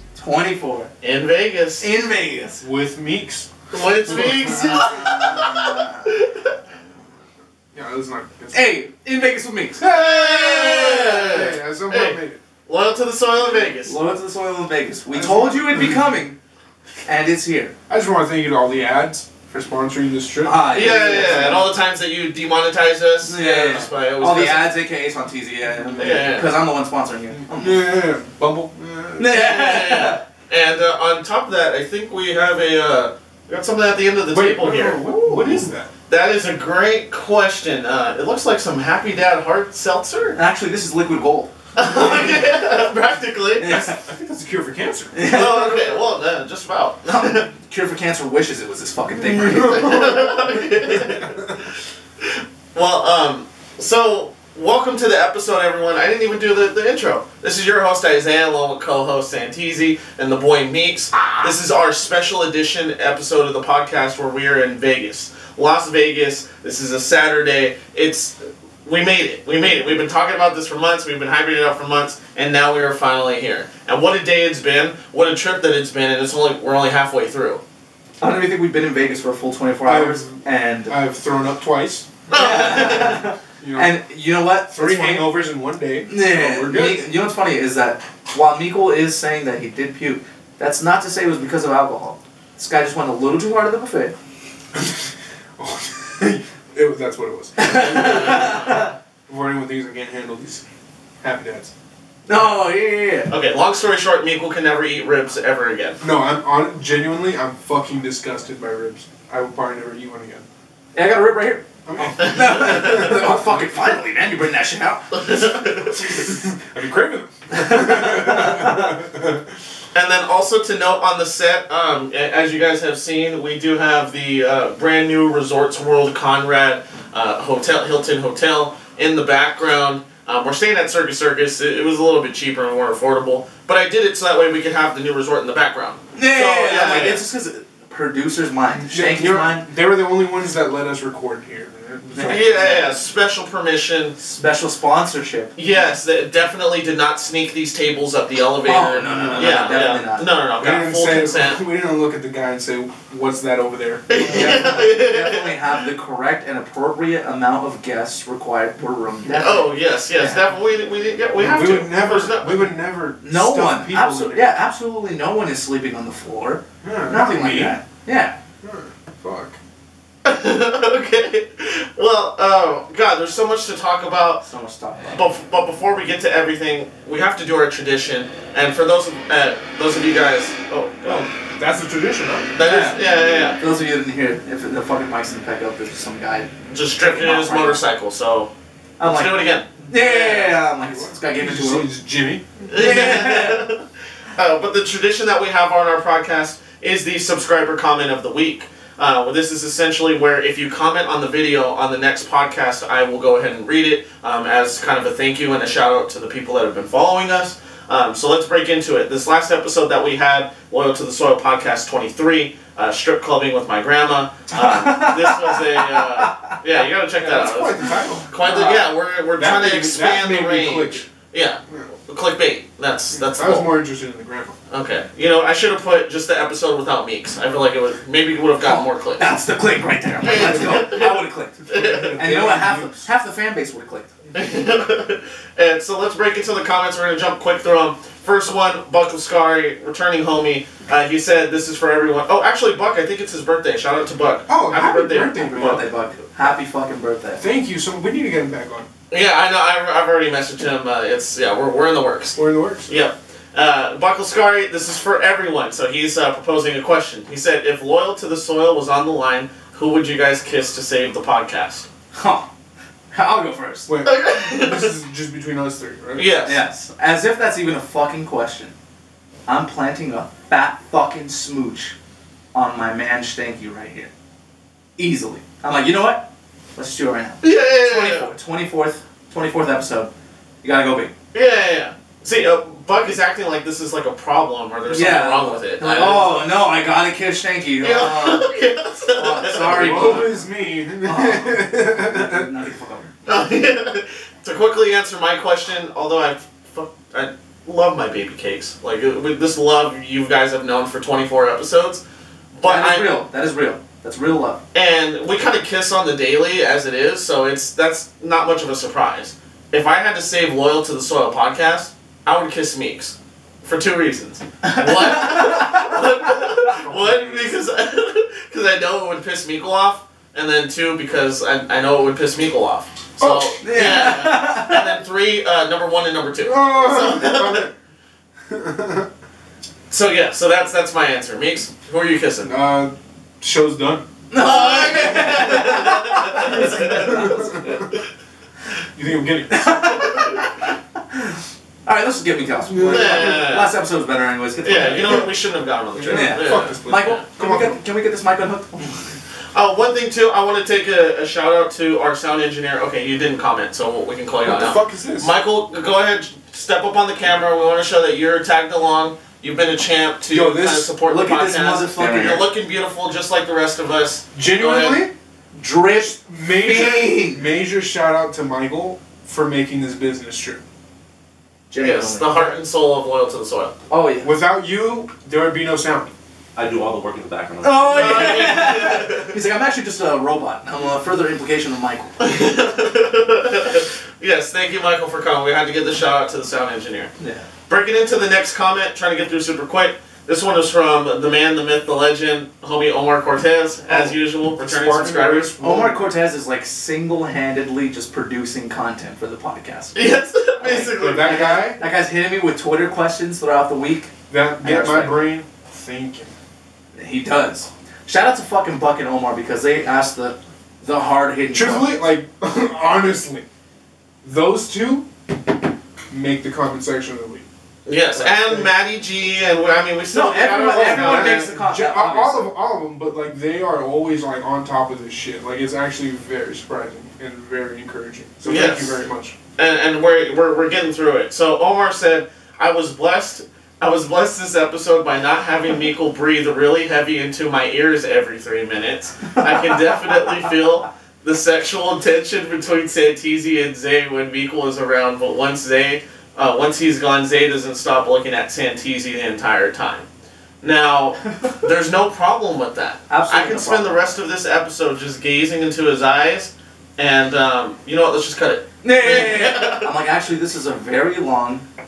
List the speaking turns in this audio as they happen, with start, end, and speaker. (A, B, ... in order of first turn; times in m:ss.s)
0:00.2-0:00.9 A
0:01.0-0:01.9 B
0:01.8-0:02.6 A
0:02.6-0:05.2 C
0:03.7-0:06.5 B
0:04.8-0:06.0 A
0:07.7-0:08.8 C
0:08.5-0:09.8 A
0:09.8-0:12.4 C
0:09.8-0:14.0 B
0:13.8-0:16.4 A
0:15.1-0:16.0 C
0:17.1-0:17.8 A
0:17.9-0:21.6 C
0:20.4-0:21.7 A
0:20.7-0:24.8 B
0:23.2-0:28.0 A
0:25.8-0:26.4 C
0:26.0-0:26.6 B
0:27.4-0:29.4 C
0:29.2-0:30.2 A
0:29.3-0:35.1 B
0:34.3-0:35.9 C
0:35.3-0:35.5 A
0:36.1-0:40.4 B
0:40.3-0:41.5 A
0:41.8-0:43.7 B
0:41.8-0:42.6 C
0:43.6-0:44.0 A
0:43.6-0:45.2 C
0:45.1-0:46.0 A
0:45.2-0:47.5 B
0:47.1-0:50.2 A
0:49.2-0:51.6 C
0:49.5-0:51.4 B
0:52.2-1:17.6 B
1:18.2-1:21.0 A
1:19.8-1:23.1 C
1:22.3-1:23.3 B
1:22.3-1:25.3 A
1:23.6-1:24.0 C
1:24.7-1:27.0 C
1:26.1-1:34.2 A
1:34.8-1:40.6 C
1:37.6-1:38.9 A
1:37.9-1:38.8 B
1:41.2-1:41.7 C
1:42.3-1:43.3 A
1:43.3-1:46.0 B
1:46.0-1:50.5 C
1:51.0-1:55.4 A
1:51.9-1:53.7 C
1:52.2-1:53.2 B
1:55.1-1:56.0 B
1:56.2-1:59.5 C
1:57.5-1:59.0 A
1:59.9-2:17.2 B
2:16.2-2:19.7 A
2:18.8-2:22.8 C
2:22.1-2:22.9 A
2:22.2-2:24.2 B
2:24.2-2:25.5 A
2:25.6-2:31.6 B
2:28.6-2:30.3 A
2:29.1-2:29.9 C
2:30.6-2:34.6 C
2:34.1-2:35.8 B
2:34.2-2:40.4 A
2:39.3-2:42.7 B
2:41.4-2:44.4 C
2:43.2-2:48.4 A
2:46.8-2:47.8 C
2:48.6-2:49.6 C
2:50.2-2:54.4 B
2:54.4-2:55.2 A
2:55.2-3:01.3 B
3:01.0-3:02.5 C
3:02.6-3:03.6 B
3:02.6-3:07.8 A
3:06.7-3:10.6 B
3:09.0-3:11.9 A
3:10.8-3:12.7 C
3:12.7-3:13.8 B
3:12.8-3:13.7 A
3:14.4-3:43.7 B
3:34.5-3:36.3 A
3:37.2-3:38.8 C
3:38.4-3:38.8 A
3:39.4-3:41.1 C
3:43.1-3:44.6 C
3:44.7-3:49.3 B
3:48.6-3:51.6 A
3:50.2-3:52.2 B
3:50.3-3:50.9 C
3:51.7-3:53.1 C
3:52.2-3:54.1 A
3:54.4-4:05.8 B
4:04.5-4:05.9 C
4:05.4-4:07.4 A
4:07.4-4:08.9 C
4:09.1-4:21.9 B
4:12.4-4:12.9 C
4:22.1-4:22.5 A
4:23.1-4:23.9 A
4:23.9-4:26.3 C
4:24.0-4:24.9 B
4:26.2-4:26.6 B
4:26.4-4:28.7 A
4:29.5-4:32.0 A
4:32.5-4:34.1 A
4:35.0-4:40.1 A
4:37.4-4:38.3 B
4:40.6-4:41.1 A
4:41.3-4:46.5 B
4:44.9-4:48.5 A
4:47.8-4:50.2 B
4:49.1-4:50.4 A
4:49.6-4:52.5 C
4:51.0-4:53.1 A
4:53.3-5:02.0 B
5:02.6-5:03.2 B
5:02.6-5:04.6 A
5:04.7-5:27.7 B
5:14.6-5:16.0 A
5:16.8-5:17.5 C
5:23.2-5:23.8 C
5:23.6-5:25.0 A
5:26.4-5:27.7 C
5:28.5-5:29.1 C
5:29.9-5:32.5 B
5:32.4-5:34.1 C
5:34.3-5:37.5 A
5:34.4-5:38.0 B
5:36.4-5:37.9 C
5:39.0-5:39.9 C
5:39.5-5:45.3 A
5:40.1-5:40.4 B
5:42.7-5:43.5 C
5:42.8-5:43.7 B
5:44.6-5:47.2 B
5:45.9-5:47.8 C
5:46.1-5:49.1 A
5:49.5-6:05.1 B
5:54.4-5:55.3 C
6:00.3-6:00.9 C
6:01.0-6:02.5 A
6:04.3-6:05.1 C
6:05.6-6:07.5 A
6:05.9-6:10.6 C
6:11.7-6:12.5 A
6:11.8-6:13.7 B
6:13.9-6:14.3 A
6:14.2-6:16.1 C
6:16.6-6:18.5 D
6:17.6-6:22.2 A
6:17.9-6:19.3 B
6:22.2-6:27.1 B
6:27.2-6:27.5 A
6:27.7-6:35.5 B
6:33.9-6:36.1 C
6:35.6-6:40.0 A
6:40.0-6:41.7 B
6:40.6-6:45.3 A
6:40.9-6:41.8 C
6:44.3-6:46.3 C
6:46.9-6:52.0 A
6:51.5-6:53.4 C
6:54.2-6:55.1 C
6:56.1-6:57.5 C
6:57.9-7:01.5 B
6:58.1-6:58.7 C
7:00.1-7:02.5 A
7:00.8-7:09.4 C
7:08.4-7:09.0 B
7:09.6-7:30.1 B
7:30.6-7:39.9 B
7:33.1-7:34.1 A
7:38.8-7:41.6 A